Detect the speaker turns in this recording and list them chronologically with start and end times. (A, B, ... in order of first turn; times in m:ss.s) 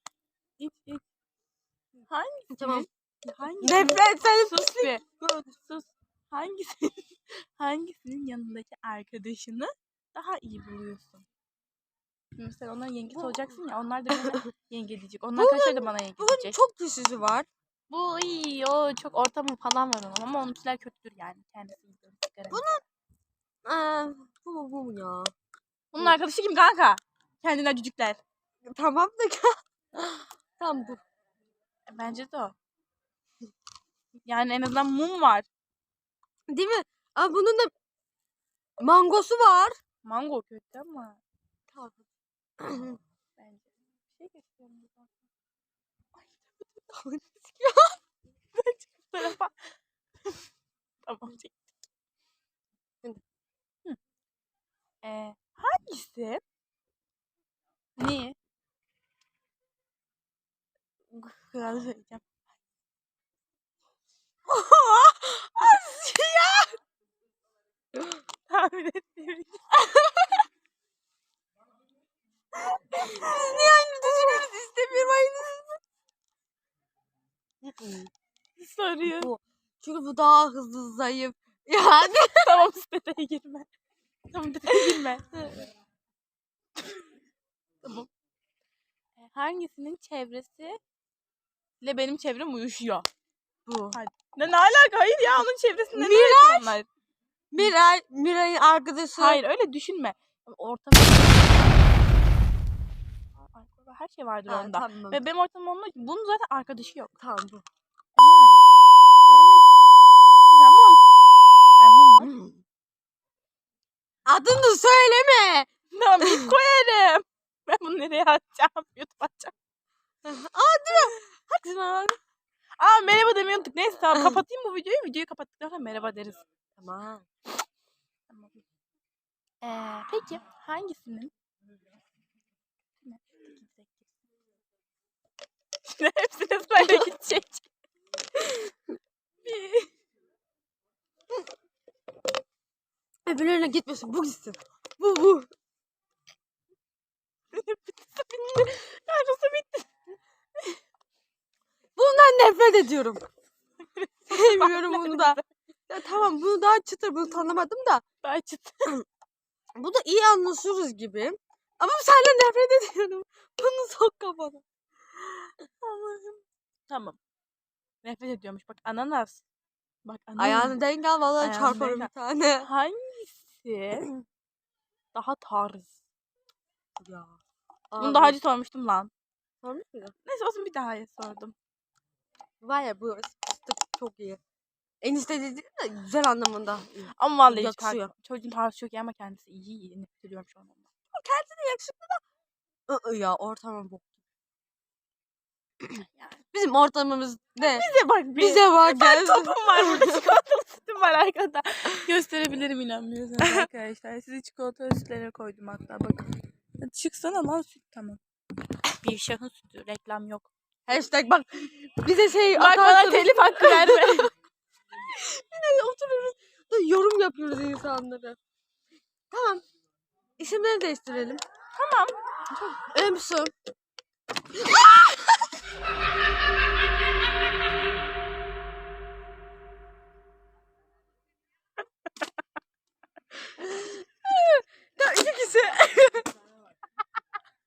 0:00.6-0:01.0 A
0:02.1-0:05.0 A
0:02.5-0:02.9 B
0:03.6-0:05.5 B
0:05.6-0:11.2 A
0:12.4-0:16.6 A
0:13.1-0:13.4 B
0:14.2-0:14.4 B
0:15.4-0:17.5 B
0:17.9-0:22.7 A
0:22.5-0:22.8 B
0:23.6-0:25.3 B
0:25.9-0:28.2 A
0:28.6-0:31.0 B
0:31.9-0:32.5 A
0:34.2-0:35.5 A
0:36.5-0:37.7 B
0:38.8-0:39.8 B
0:40.0-0:41.2 A
0:41.7-0:42.0 B
0:42.6-0:43.0 B
0:43.4-0:45.1 A
0:46.2-0:46.9 A
0:46.9-0:48.0 B
0:48.5-0:49.6 A
0:51.0-0:51.7 A
0:55.0-0:56.4 A
0:58.0-0:58.4 A
1:01.1-1:02.2 A
1:04.5-1:06.8 A
1:08.5-1:10.4 A
1:12.9-1:14.4 A
1:13.0-1:15.8 B
1:17.6-1:18.1 B
1:18.6-1:19.3 A
1:19.0-1:22.7 B
1:22.2-1:23.7 A
1:24.3-1:25.7 A
1:29.2-1:30.8 A
1:31.8-1:33.1 A
1:33.6-1:34.0 B
1:33.9-1:36.9 A
1:35.9-1:36.7 B
1:37.5-1:39.4 B
1:39.2-1:42.0 A
1:43.4-1:47.1 A
1:44.5-1:45.2 B
1:47.2-1:47.6 B
1:48.2-1:48.6 A
1:49.2-1:49.7 A
1:50.5-1:51.0 A
1:51.8-1:52.3 A
1:52.3-1:52.6 B
1:54.3-1:55.7 B
1:55.9-1:59.5 A
1:56.2-1:56.5 B
2:00.2-2:02.2 B
2:02.8-2:06.4 A
2:04.1-2:04.4 B
2:06.8-2:07.2 B
2:09.6-2:11.3 A
2:13.0-2:14.1 A
2:15.8-2:17.7 A
2:19.4-2:19.9 A
2:23.2-2:25.5 B
2:27.5-2:29.9 A
2:32.0-2:33.2 B
2:33.8-2:35.4 A
2:34.3-2:38.0 B
2:38.2-2:39.0 A
2:39.8-2:44.6 B
2:45.8-2:47.2 A
2:48.0-2:49.4 A
2:50.0-2:50.8 A
2:50.4-2:52.7 B
2:51.4-2:52.1 A
2:52.6-2:54.1 A
2:55.1-2:56.0 A
2:57.0-2:57.4 B
2:57.9-2:58.4 B
2:58.0-2:59.1 A
2:59.6-3:00.1 B
3:00.2-3:01.5 A
3:02.6-3:04.4 B
3:05.0-3:08.1 B
3:07.1-3:12.2 A
3:12.9-3:14.2 B
3:15.9-3:16.4 A
3:16.5-3:20.2 B
3:17.6-3:28.2 A
3:23.4-3:23.7 B
3:28.9-3:30.5 A
3:30.9-3:34.3 B
3:32.5-3:34.3 A
3:35.1-3:38.4 B
3:39.3-3:39.6 B
3:40.4-3:41.4 B
3:41.7-3:42.8 A
3:42.9-3:43.5 B
3:44.5-3:45.2 B
3:53.6-3:56.3 B